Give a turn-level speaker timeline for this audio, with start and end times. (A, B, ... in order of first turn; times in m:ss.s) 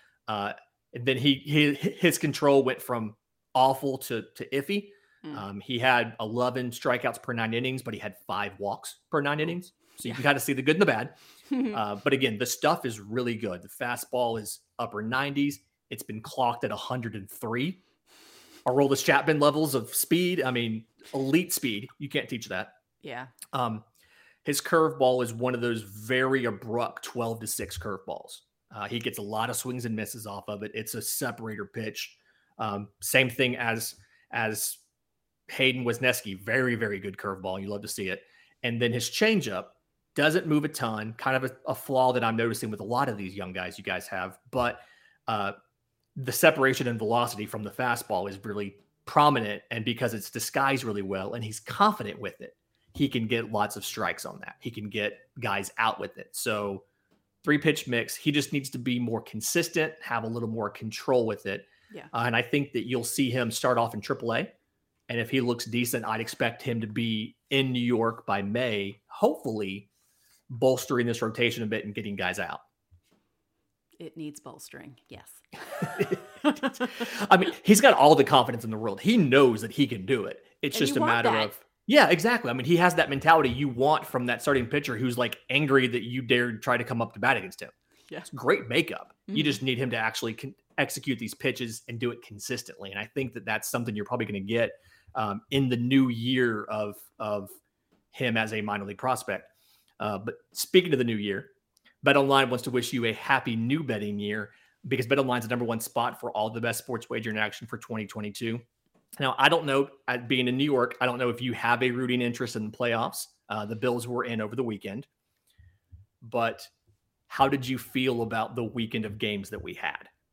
0:00.3-0:11.2 A
0:11.5-0:11.8 B
0:11.7-0:17.8 A
0:18.6-0:22.7 A
0:23.0-0:23.3 B
0:23.5-0:23.8 A
0:24.4-0:34.8 A
0:35.5-0:45.5 A
0:46.2-0:56.8 A
0:57.4-1:04.5 A
1:05.1-1:09.9 A
1:10.5-1:12.6 A
1:14.0-1:16.8 B
1:15.8-1:27.7 A
1:20.7-1:21.5 B
1:28.3-1:37.6 A
1:29.3-1:29.6 B
1:38.1-1:41.5 A
1:42.0-1:48.6 A
1:49.2-1:55.1 A
1:56.2-1:56.7 A
1:57.3-2:00.1 A